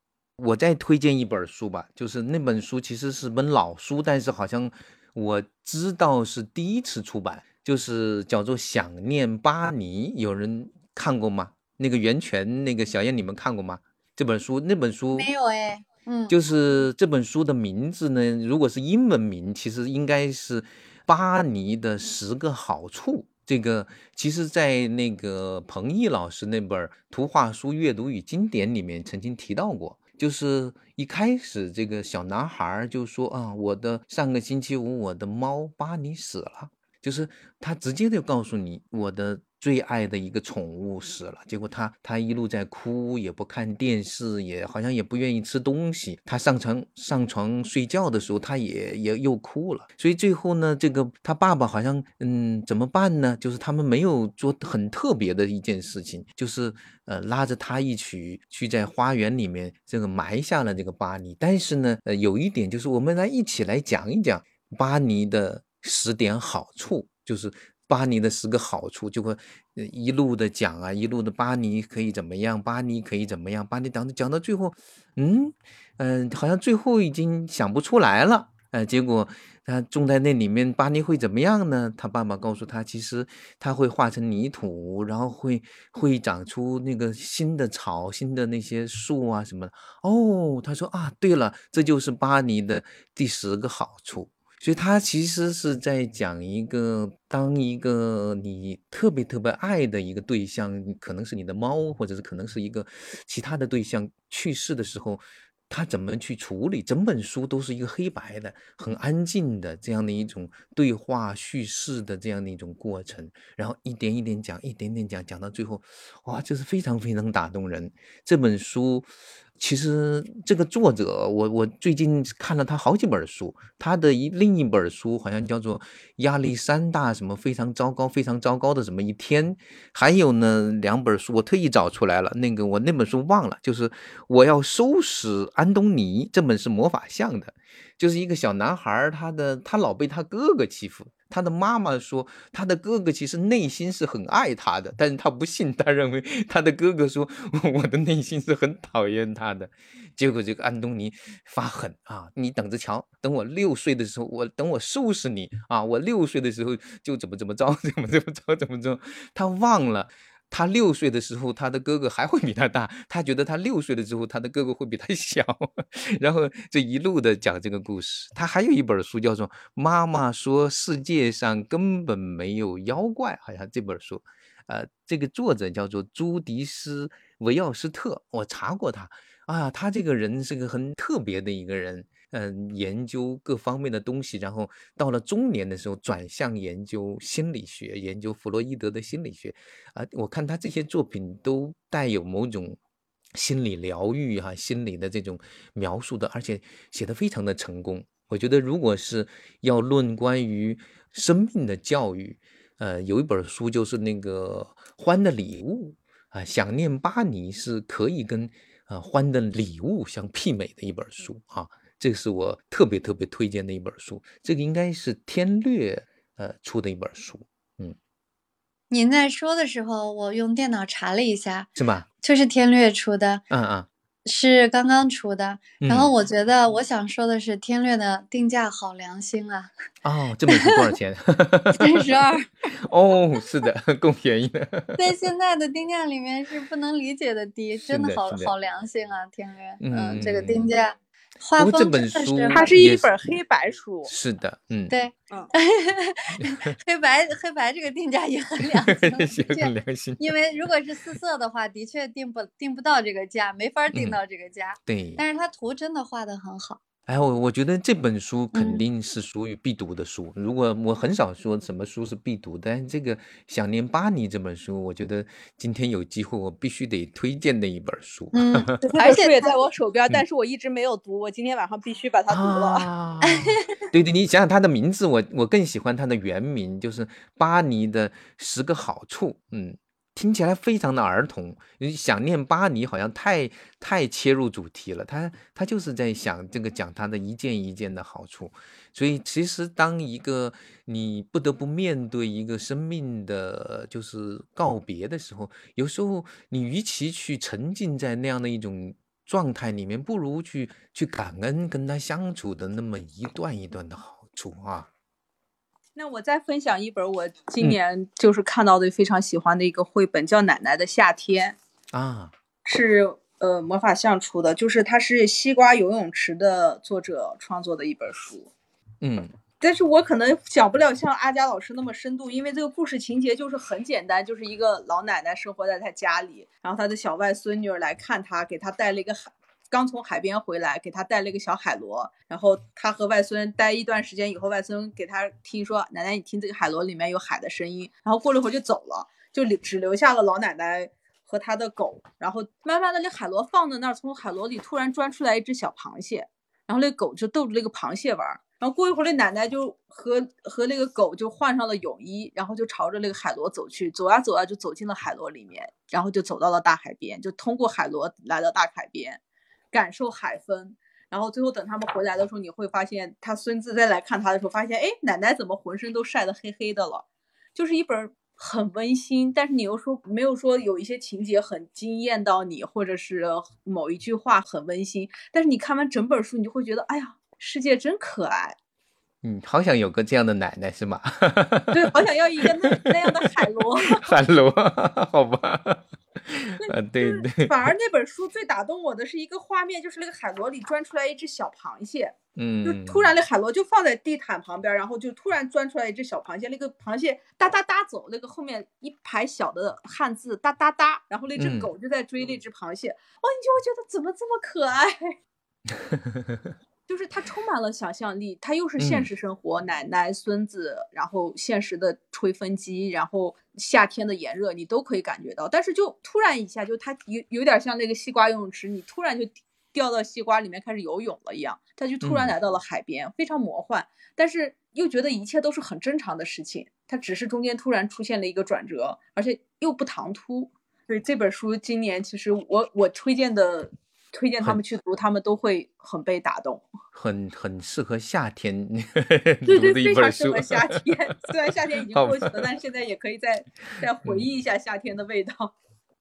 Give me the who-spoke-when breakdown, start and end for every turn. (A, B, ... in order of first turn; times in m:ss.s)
0:00.4-0:15.3 A
0:15.2-0:16.4 B
0:16.3-3:12.8 A
3:13.4-3:38.0 A
3:38.9-3:41.7 B
3:41.8-3:42.1 A
3:42.2-3:43.4 B
3:43.5-3:43.9 A
3:44.3-3:49.7 B
3:45.8-3:46.1 A
3:50.0-3:52.1 A
3:50.5-3:50.8 B
3:51.8-3:52.5 B
3:52.8-3:55.1 A
3:55.0-4:02.6 B
3:57.9-3:58.5 A
3:59.8-4:00.7 A
4:01.6-4:03.1 A
4:02.5-4:04.1 C
4:04.1-4:04.9 A
4:04.9-4:16.8 B
4:06.4-4:06.7 A
4:08.6-4:10.4 A
4:13.9-4:14.2 A
4:14.9-4:15.2 A
4:17.1-4:28.8 A
4:18.5-4:18.8 B
4:28.3-4:29.5 B
4:28.9-4:32.9 C
4:32.3-5:04.9 A
4:33.2-4:33.5 B
5:06.0-5:11.6 C
5:11.9-5:12.3 A
5:12.6-5:18.5 C
5:19.0-5:19.3 A
5:19.6-5:59.2 C
5:59.7-6:18.6 C
6:19.2-6:27.7 A
6:21.7-6:24.1 C
6:26.6-6:45.2 C
6:32.4-6:33.2 A
6:41.4-6:41.7 A
6:45.7-6:46.6 A
6:46.9-7:16.6 C
6:48.8-6:49.1 A
7:02.0-7:02.3 A
7:17.0-7:20.8 A
7:19.5-7:25.5 C
7:21.9-7:22.4 A